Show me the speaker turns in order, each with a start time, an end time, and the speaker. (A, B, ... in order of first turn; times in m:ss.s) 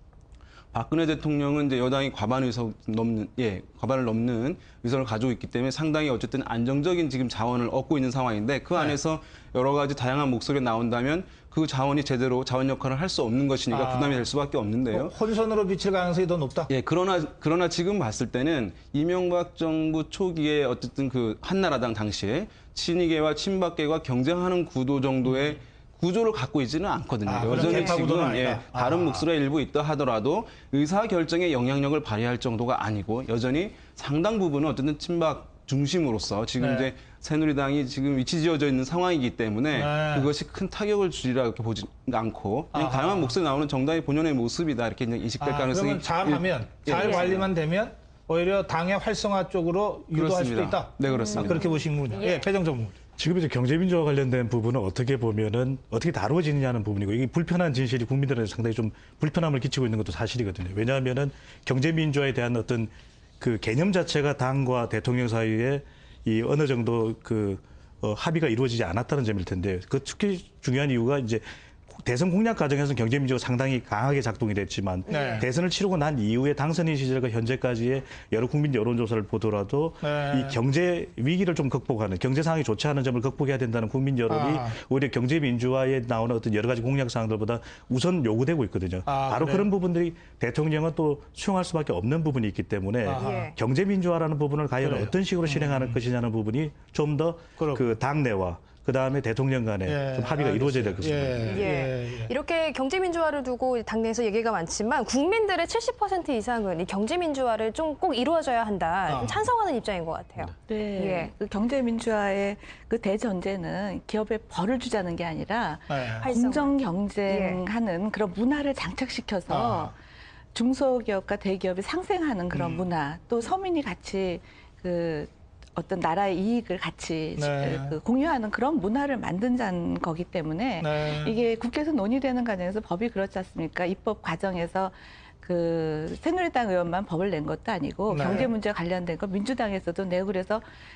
0:00.7-0:15.1 A
0:13.7-0:14.3 B
0:14.9-0:16.7 B
0:16.7-0:47.5 A
0:27.2-0:29.2 B
0:27.5-0:28.2 C
0:36.6-0:36.9 B
0:39.7-0:40.3 B
0:42.7-0:43.3 B
0:45.4-0:53.0 B
0:46.9-0:47.4 C
0:50.1-0:51.6 A
0:51.0-0:52.5 C
0:53.2-1:41.6 D
1:15.1-1:15.5 B
1:15.1-1:15.4 C
1:20.0-1:20.6 B
1:24.3-1:24.8 B
1:29.0-1:29.7 B
1:33.0-1:33.5 B
1:33.2-1:33.5 C
1:34.8-1:36.0 B
1:37.6-1:37.8 B
1:39.8-1:42.3 B
1:41.4-1:51.3 C
1:49.1-1:49.5 B
1:50.6-1:59.9 E
1:55.9-1:56.3 B
1:56.2-1:57.6 C
1:59.5-1:59.9 B
2:00.5-2:20.6 E
2:02.5-2:02.9 B
2:07.4-2:08.0 B
2:10.8-2:11.4 B
2:18.1-2:18.5 B